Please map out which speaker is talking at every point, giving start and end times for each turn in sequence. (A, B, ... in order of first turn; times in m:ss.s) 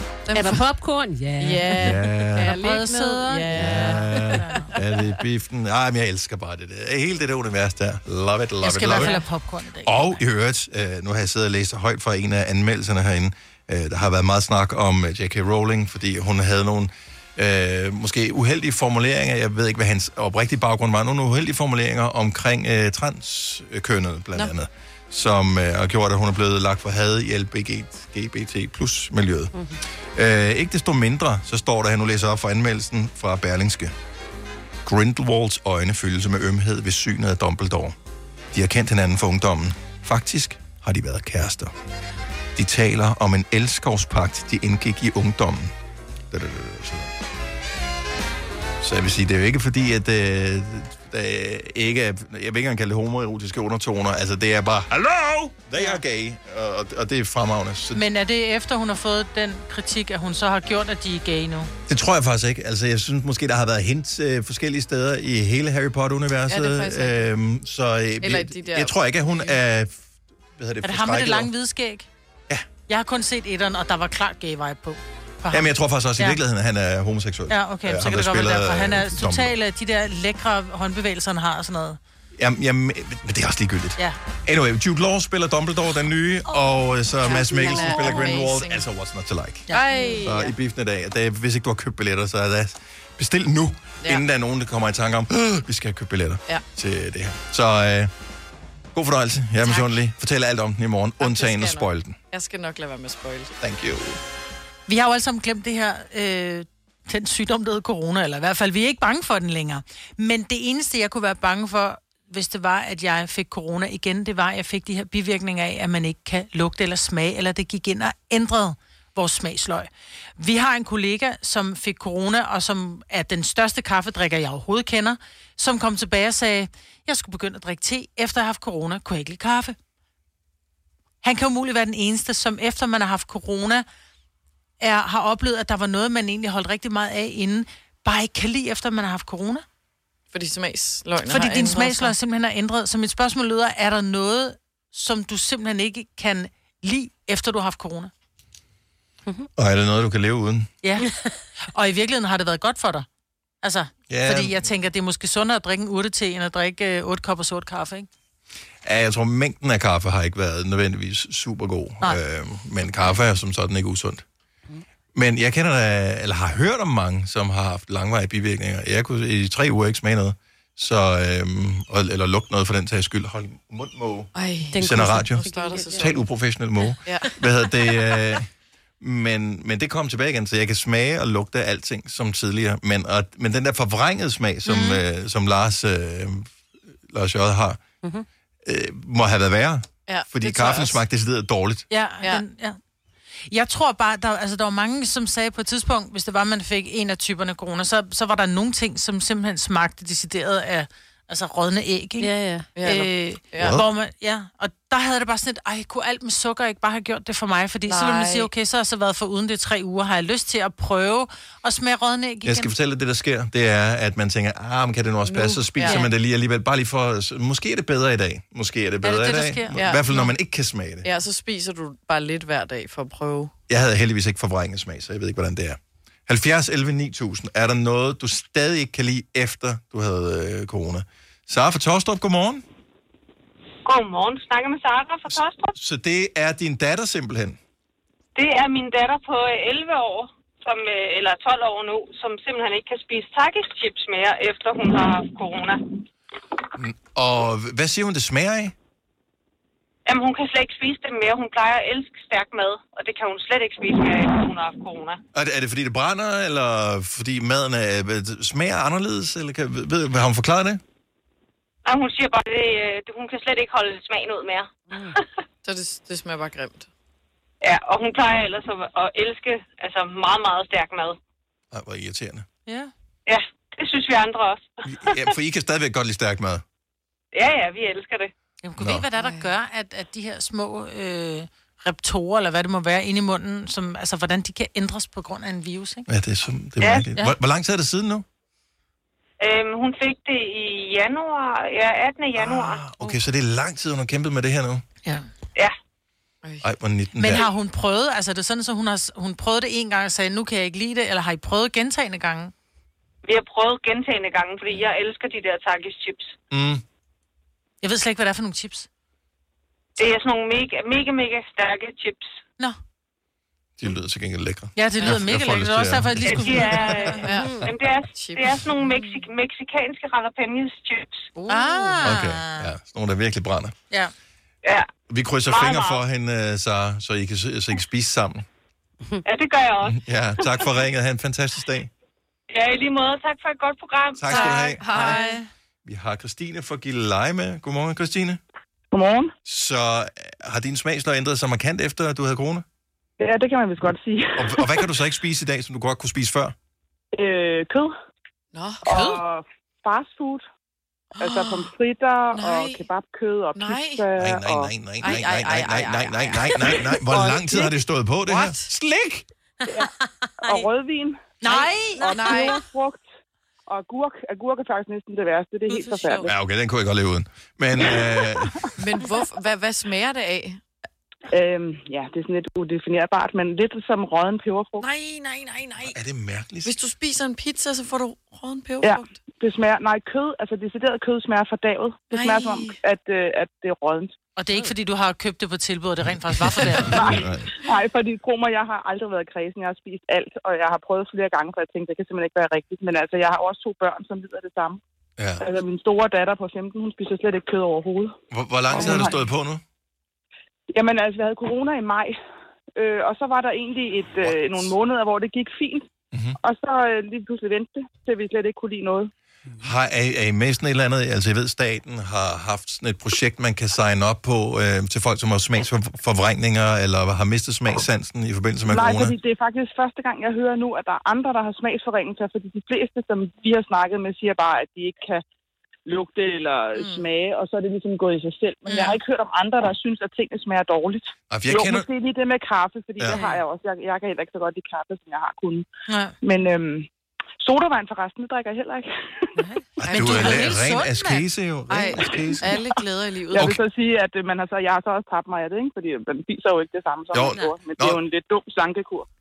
0:00.2-0:00.6 A
0:00.3-0:02.1 B
0:01.4-0:04.2 A
0:01.8-0:02.5 C
0:02.4-0:04.7 D
0:02.8-0:04.1 B
0:03.5-0:09.1 C
0:08.6-0:10.2 D
0:09.8-0:29.5 C
0:30.1-0:33.9 C
0:34.8-0:38.0 C
0:38.5-0:41.7 C
0:42.5-0:45.7 C
0:46.3-0:47.1 C
0:48.8-0:58.0 C
0:57.9-1:01.7 D
1:01.9-1:10.0 C
1:06.5-1:07.2 A
1:08.2-1:09.0 A
1:10.6-1:11.5 C
1:10.8-1:12.1 D
1:12.9-1:16.4 D
1:15.5-1:19.6 C
1:17.5-1:22.0 D
1:22.3-1:29.7 C
1:27.2-1:28.8 A
1:27.8-1:28.3 D
1:29.7-1:30.1 D
1:29.7-1:30.5 A
1:30.2-1:38.1 C
1:38.9-1:42.1 C
1:41.2-1:43.5 A
1:43.6-1:44.2 C
1:44.9-2:09.8 D
2:11.2-2:13.8 D
2:14.8-2:19.6 D
2:20.3-2:22.1 A
2:21.3-2:28.1 D
2:29.6-2:30.7 C
2:30.8-2:31.1 D
2:31.7-2:33.1 D
2:33.6-2:38.1 D
2:34.1-2:34.6 C
2:38.8-2:44.2 C
2:45.1-2:58.4 C
2:54.3-2:56.2 A
2:54.7-2:56.2 B
2:57.0-2:57.3 A
2:59.0-3:06.5 C
3:04.6-3:05.0 D
3:07.1-3:07.8 C
3:08.6-3:11.8 C
3:10.1-3:11.0 A
3:11.9-3:12.8 D
3:13.5-3:32.7 D
3:22.2-3:22.7 B
3:22.8-3:23.8 A
3:23.6-3:23.8 C
3:27.9-3:28.5 A
3:32.4-3:41.1 C
3:35.3-3:36.0 A
3:39.0-3:40.3 D
3:39.7-3:40.0 A
3:41.0-3:43.5 A
3:43.7-3:52.6 C
3:53.8-3:55.7 E
3:55.3-3:57.6 C
3:58.3-4:05.8 E
4:06.8-4:08.7 C
4:10.0-4:15.2 E
4:15.3-4:20.8 C
4:21.8-4:25.2 E
4:25.6-4:26.9 A
4:27.6-4:31.2 E
4:31.7-4:32.4 C
4:32.7-4:32.9 D
4:33.2-4:35.3 E
4:34.8-4:36.6 C
4:37.3-4:38.3 E
4:38.6-4:46.0 D
4:38.8-4:39.0 C
4:39.2-4:39.5 A
4:46.1-4:48.2 C
4:49.4-4:52.8 E
4:52.3-4:54.8 C
4:56.6-4:57.4 C
4:57.2-5:02.5 D
5:03.2-5:06.4 E
5:06.5-5:06.8 C
5:07.8-5:08.9 D
5:10.0-5:12.3 E
5:13.8-5:17.2 C
5:14.8-5:17.2 D
5:16.2-5:21.3 E
5:17.2-5:17.6 A
5:17.4-5:17.6 B
5:18.1-5:19.2 A
5:21.3-5:22.1 A
5:21.5-5:22.7 D
5:22.0-5:23.7 C
5:25.1-5:28.4 C
5:25.4-5:26.0 E
5:29.2-5:30.7 E
5:29.8-5:31.9 C
5:32.5-5:34.7 E
5:34.2-5:35.2 C
5:34.3-5:35.4 A
5:34.3-5:35.4 D
5:35.8-5:38.4 C
5:38.9-5:39.3 F
5:39.4-5:42.6 C
5:43.2-5:44.9 F
5:44.4-5:46.5 C
5:47.1-5:47.9 F
5:48.5-5:48.8 A
5:48.8-5:50.4 F
5:48.9-5:49.2 D
5:51.2-5:54.7 F
5:51.4-5:51.7 A
5:52.3-5:52.9 A
5:53.6-5:54.0 A
5:54.2-5:59.2 C
5:55.0-5:57.0 A
5:57.0-5:57.7 F
5:58.3-5:58.7 A
6:00.4-6:00.7 B
6:00.4-6:01.3 F
6:01.4-6:02.3 D
6:01.4-6:02.6 A
6:02.0-6:03.0 F
6:03.7-6:06.3 F
6:05.7-6:06.3 A
6:06.2-6:08.6 C
6:08.8-6:10.6 A
6:11.3-6:14.9 F
6:14.8-6:16.0 A
6:15.8-6:16.8 C
6:16.6-6:19.0 A
6:18.8-6:24.1 F
6:22.1-6:22.8 A
6:24.4-6:27.1 D
6:26.3-6:27.5 C
6:26.9-6:34.8 F
6:35.2-6:35.4 C
6:35.4-6:38.1 F
6:38.3-6:39.6 C
6:38.7-6:39.2 F
6:40.7-6:42.2 F
6:42.8-6:45.9 F
6:44.2-6:44.7 C
6:46.4-6:49.1 F
6:49.6-6:59.1 C
6:58.7-7:05.2 F
7:05.8-7:15.6 F
7:06.8-7:07.0 A
7:08.7-7:09.0 D
7:11.3-7:11.8 C
7:13.1-7:13.4 D
7:15.9-7:16.2 D
7:16.2-7:16.9 F
7:17.4-7:19.2 F
7:19.4-7:21.2 D
7:19.8-7:22.5 C
7:19.8-7:20.5 A
7:21.7-7:23.6 A
7:23.3-7:29.1 F
7:27.1-7:28.0 C